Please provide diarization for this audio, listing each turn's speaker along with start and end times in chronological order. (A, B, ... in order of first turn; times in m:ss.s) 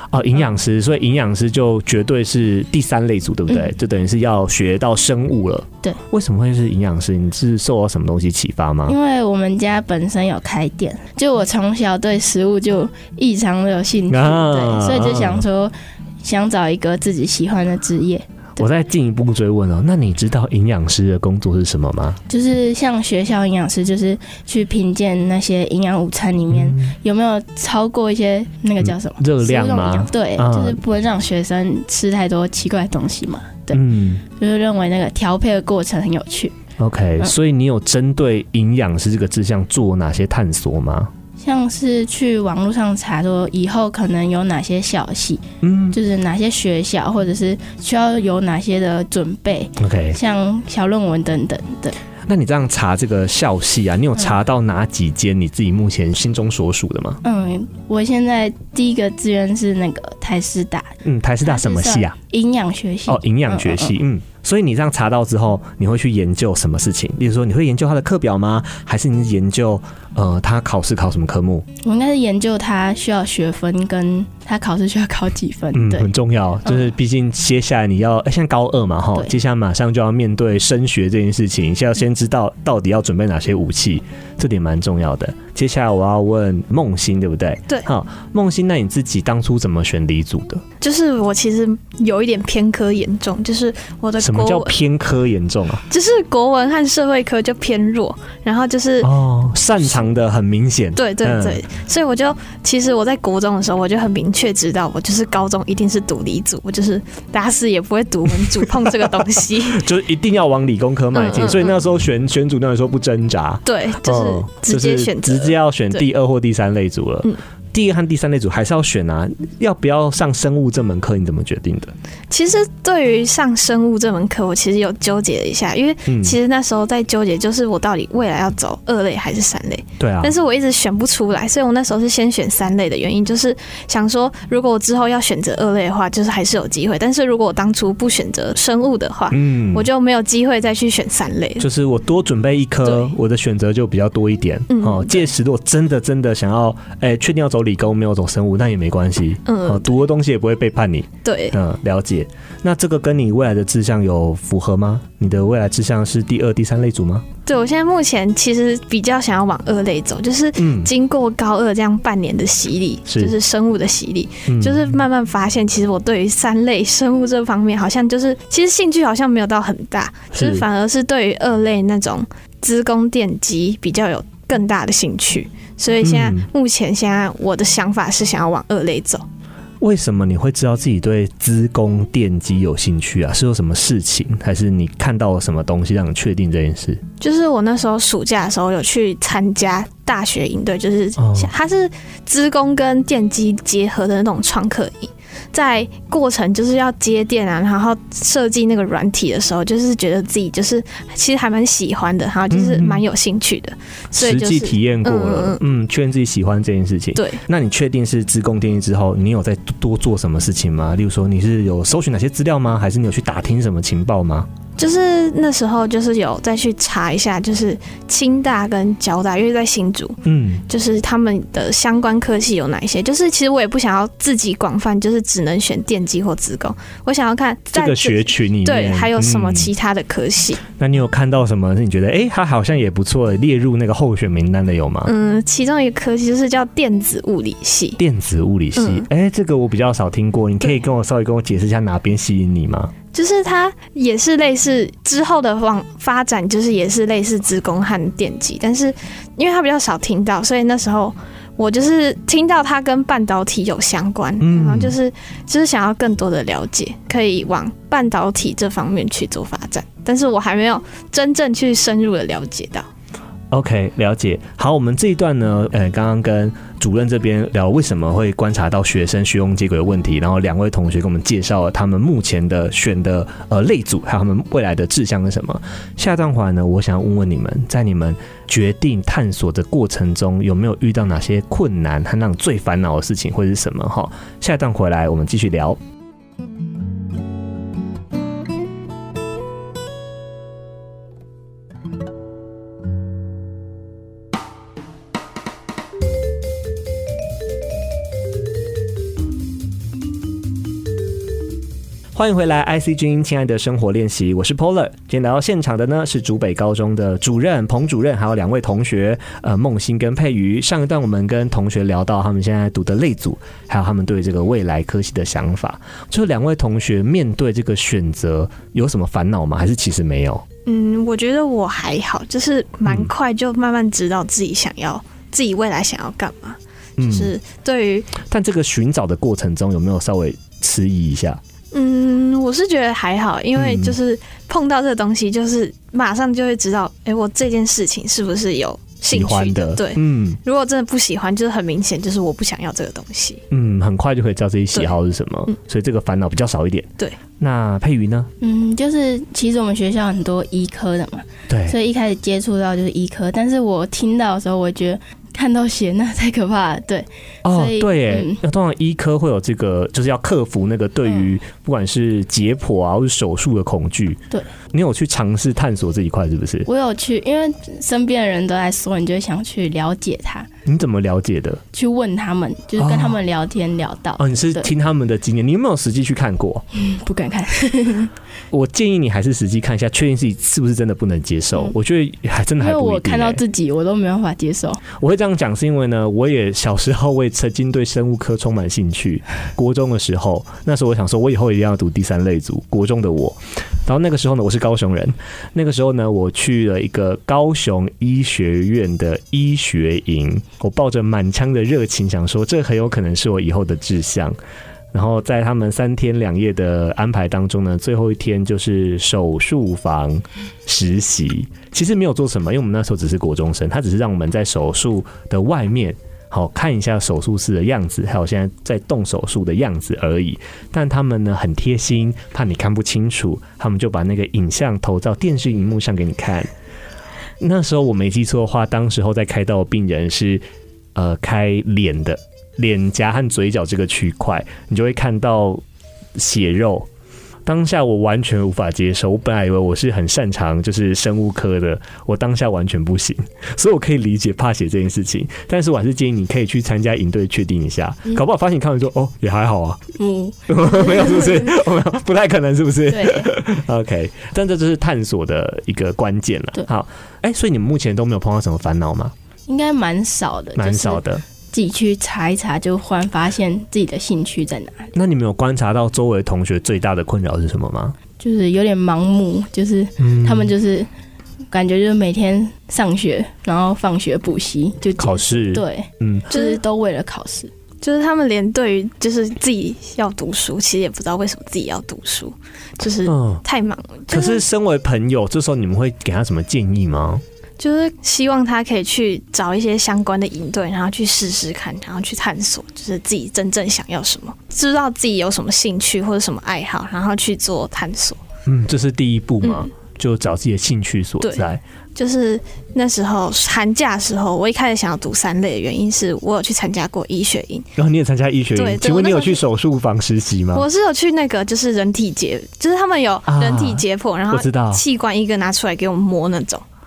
0:00.1-0:09.0 A
0:08.9-0:18.6 B
0:14.1-0:15.4 A
0:18.6-0:22.2 A
0:22.3-0:36.5 B
0:26.5-0:26.9 A
0:28.8-0:30.8 A
0:33.7-0:34.2 A
0:36.8-0:41.1 A
0:41.4-0:52.0 B
0:45.6-0:46.0 A
0:49.8-0:50.2 A
0:52.3-0:57.2 A
0:57.2-1:04.0 B
1:01.0-1:02.2 A
1:03.1-1:11.7 A
1:11.8-1:16.1 B
1:15.7-1:30.6 A
1:30.8-1:34.8 C
1:34.2-1:35.8 A
1:35.9-1:39.1 C
1:39.0-1:41.6 A
1:41.0-1:49.9 C
1:49.7-2:01.9 A
1:51.1-1:51.8 C
1:53.7-1:56.0 C
2:02.3-2:21.7 C
2:06.1-2:06.4 A
2:10.0-2:10.3 A
2:19.3-2:19.9 A
2:21.6-2:37.3 A
2:22.8-2:23.2 C
2:24.7-2:25.3 C
2:29.5-2:29.9 C
2:31.2-2:31.6 C
2:37.5-2:59.2 C
2:40.6-2:40.9 A
2:43.1-2:43.4 A
2:44.5-2:45.0 A
2:50.3-2:50.6 A
2:56.0-2:56.4 A
2:59.8-3:07.0 A
3:07.2-3:25.6 C
3:11.2-3:11.5 A
3:22.5-3:23.0 A
3:24.2-3:34.5 A
3:27.2-3:27.4 C
3:34.8-3:50.6 C
3:40.3-3:40.6 A
3:47.7-3:49.7 A
3:50.8-3:55.1 A
3:55.0-3:58.0 C
3:58.0-4:02.9 A
3:58.8-3:59.1 C
4:03.1-4:22.9 C
4:14.4-4:15.0 A
4:23.5-4:45.8 A
5:02.1-5:20.4 A
5:20.7-5:28.2 C
5:22.8-5:23.1 A
5:27.0-5:27.3 A
5:28.2-5:31.4 A
5:31.7-5:43.4 C
5:33.6-5:34.0 A
5:39.1-5:40.4 A
5:43.5-5:48.3 A
5:48.4-5:58.4 B
5:51.5-5:51.8 A
5:57.4-6:04.2 A
6:04.7-6:06.7 A
6:06.7-6:10.5 B
6:10.6-6:11.6 A
6:11.7-6:14.7 B
6:12.8-6:13.2 A
6:14.2-6:16.6 A
6:16.7-6:18.1 B
6:18.5-6:23.4 A
6:22.6-6:24.8 B
6:24.9-6:44.4 A
6:44.9-7:06.5 A
7:07.4-7:10.4 A
7:11.0-7:15.6 A
7:16.2-7:16.9 A
7:17.4-7:29.8 A
7:30.0-7:31.5 B
7:30.5-7:39.1 A
7:32.9-7:33.3 B
7:39.5-7:44.9 B
7:40.6-7:41.2 A
7:45.0-7:48.0 A
7:48.2-7:50.9 B
7:50.0-7:50.5 A
7:51.5-7:57.5 B
7:55.0-7:56.3 A
7:56.3-7:56.6 C
7:57.8-8:04.4 C
8:03.1-8:03.4 A
8:04.1-8:07.2 A
8:07.6-8:18.2 C
8:18.5-8:21.6 A
8:19.4-8:19.7 C
8:21.2-8:27.7 C
8:27.8-8:30.7 A
8:28.6-8:29.4 C
8:30.5-8:36.6 C
8:33.3-8:34.8 A